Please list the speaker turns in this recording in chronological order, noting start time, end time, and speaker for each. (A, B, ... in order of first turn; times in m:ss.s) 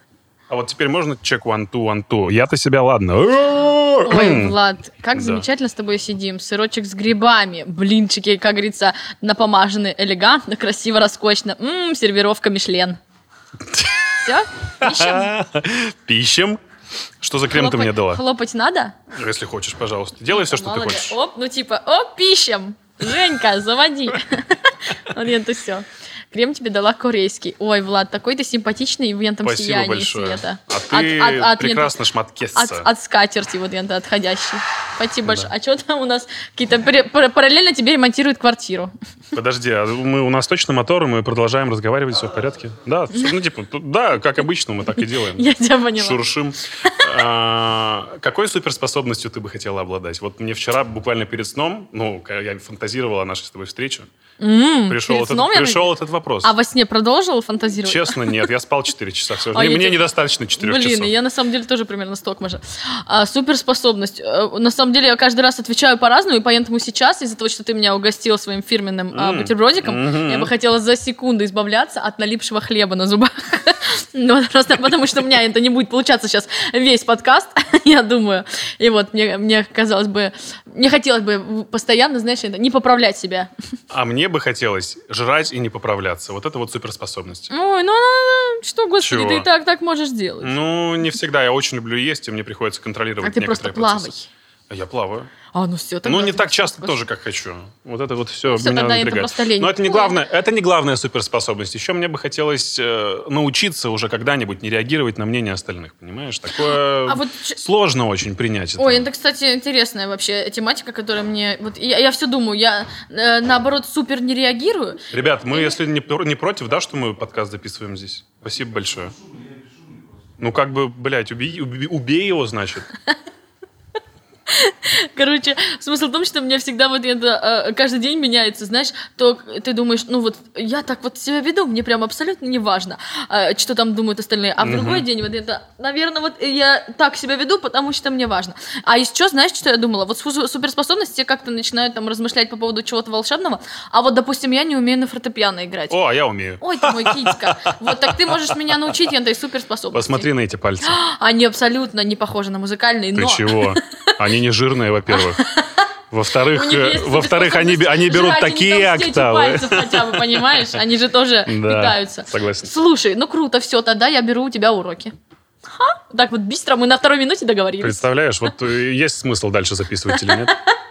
0:00.5-0:04.6 A
0:04.0-0:13.0 B
0:05.1-0:05.4 A
0:13.7-0:14.0 A
0:14.1-0:15.3 B
0:14.8-0:16.6 A
0:17.2-0:18.2 A
0:17.5-0:19.0 B
0:19.1-0:21.2 A
0:20.3-0:32.0 B
0:29.4-0:32.9 A
0:32.5-0:38.9 B
0:39.3-0:54.1 A
0:45.3-0:46.2 B
0:54.4-0:55.9 B
0:54.9-0:56.5 A
0:56.4-0:58.4 B
0:57.8-1:01.1 A
0:59.5-1:00.0 B
1:00.6-1:23.5 B
1:09.1-1:10.5 A
1:23.9-1:27.5 A
1:27.5-1:30.5 B
1:29.0-1:29.5 A
1:30.4-1:34.1 A
1:33.2-1:34.3 B
1:34.7-1:35.3 A
1:35.5-1:37.0 B
1:36.0-1:49.1 A
1:38.5-1:40.2 B
1:47.1-1:47.6 B
1:48.8-1:55.8 B
1:55.1-1:59.2 A
2:00.4-2:02.9 A
2:04.5-2:26.0 B
2:14.6-2:15.0 A
2:25.9-2:28.9 A
2:26.6-2:30.3 B
2:29.9-2:31.0 A
2:30.8-2:34.2 B
2:33.2-2:35.4 A
2:35.1-2:35.9 B
2:36.1-2:40.8 A
2:36.5-2:45.1 B
2:41.5-2:42.7 A
2:45.7-2:48.0 B
2:47.8-2:50.6 A
2:50.1-2:50.7 B